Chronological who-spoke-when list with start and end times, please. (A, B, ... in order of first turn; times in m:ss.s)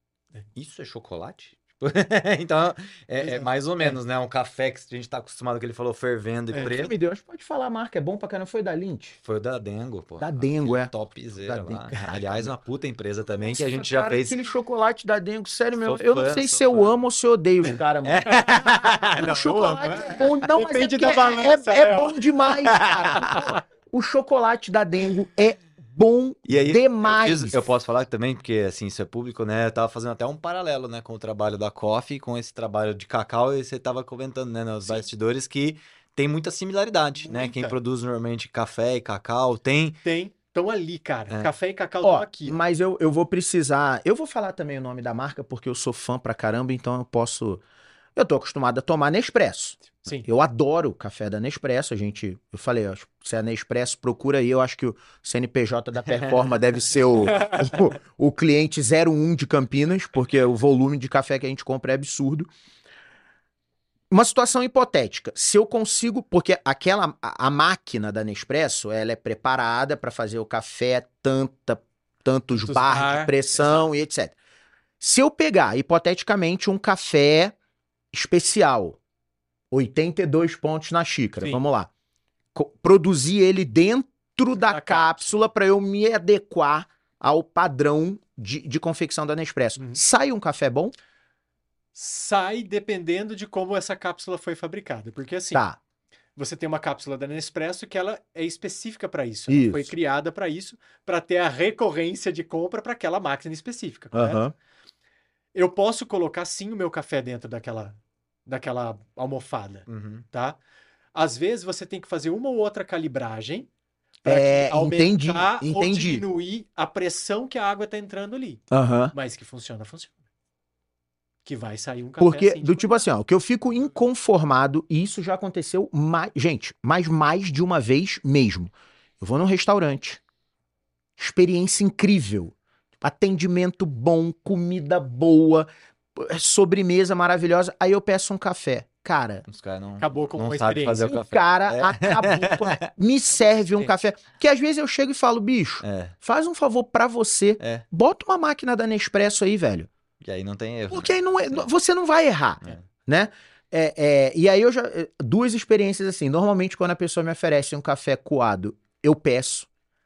0:00.5-0:06.9 A
0:03.2-0:04.0 B
0:06.6-0:09.2 C
0:09.2-0:14.4 A
0:10.2-0:10.9 C
0:11.4-0:12.5 C
0:13.5-0:27.6 C
0:15.8-0:16.9 A
0:18.0-0:20.1 A
0:18.3-0:19.1 B
0:19.8-0:22.2 B
0:22.7-0:23.4 A
0:23.2-0:23.6 B
0:26.4-0:40.0 A
0:37.2-0:37.8 B
0:40.0-0:42.6 B
0:42.0-0:47.6 C
0:48.2-1:02.5 C
0:50.0-0:50.3 B
0:57.2-0:57.8 B
1:04.1-1:14.4 C
1:12.5-1:13.8 B
1:15.0-1:17.6 C
1:18.1-1:19.0 C
1:19.7-1:21.9 C
1:22.5-1:30.9 C
1:24.6-1:25.5 B
1:29.8-1:30.0 B
1:31.9-1:35.6 B
1:35.5-1:35.8 C
1:36.4-1:44.4 B
1:39.5-1:39.9 C
1:44.1-1:44.5 C
1:45.5-1:50.6 B
1:49.9-1:50.2 A
1:51.1-1:53.7 B
1:54.2-2:00.2 B
1:54.2-1:56.2 C
1:58.7-1:59.1 C
2:01.4-2:03.1 B
2:02.2-2:10.2 C
2:11.2-2:19.4 C
2:19.5-2:22.9 A
2:20.0-2:21.2 B
2:21.0-2:29.9 C
2:23.4-2:23.9 B
2:25.8-2:26.1 A
2:27.6-2:27.8 A
2:30.2-2:31.7 A
2:30.9-2:39.7 C